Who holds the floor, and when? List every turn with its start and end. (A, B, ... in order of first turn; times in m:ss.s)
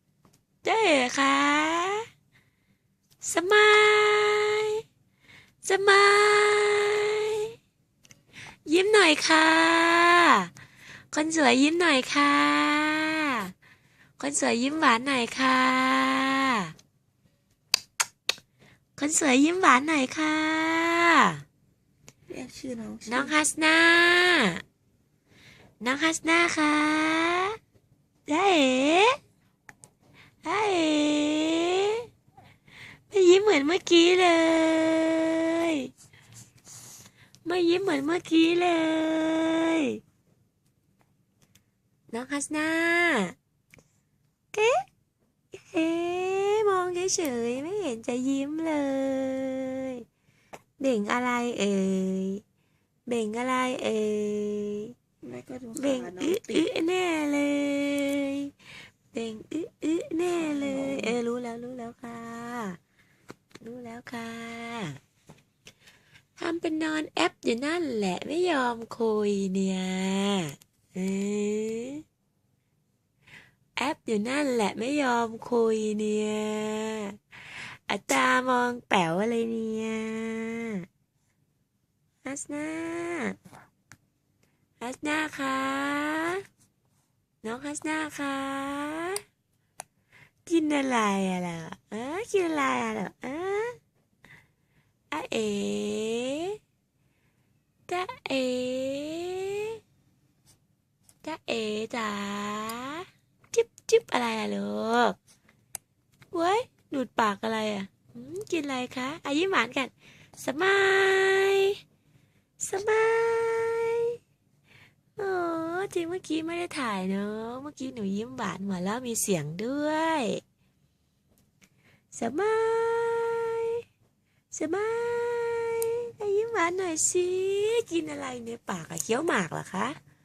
0:00.6-0:02.0 A
0:03.2-0:04.8 A
0:05.6-0:07.5 A
0:08.6-0:10.5 A
0:11.1-0:13.5 A
0:14.2-0:16.7 A
0:19.0-0:21.4 A
0:22.3-0:23.3 B
0:23.1-0:24.6 A
0:25.8-0:27.6 A
0:28.3-0:29.2 A
0:30.4-0:32.0 A
0:33.1-0:35.9 A
0:37.4-0:40.0 A
0:42.1-0:43.4 A
0:44.5-0:44.8 A
0:45.6-0:50.0 A
0:50.8-0:52.4 A
0:53.1-0:54.9 A
0:55.2-0:56.6 B
0:55.8-0:58.5 A
0:59.1-1:02.8 A
1:00.5-1:01.2 B
1:03.6-1:05.0 A
1:06.4-1:12.0 A
1:13.8-1:20.8 A
1:22.2-1:23.4 A
1:24.8-1:26.4 A
1:27.4-1:29.2 A
1:30.4-1:33.8 A
1:35.1-1:36.6 A
1:37.9-1:39.8 A
1:41.2-1:45.2 A
1:46.3-1:51.8 A
1:52.6-1:54.1 A
1:55.2-2:00.4 A
2:02.1-2:03.8 A
2:04.5-2:10.0 A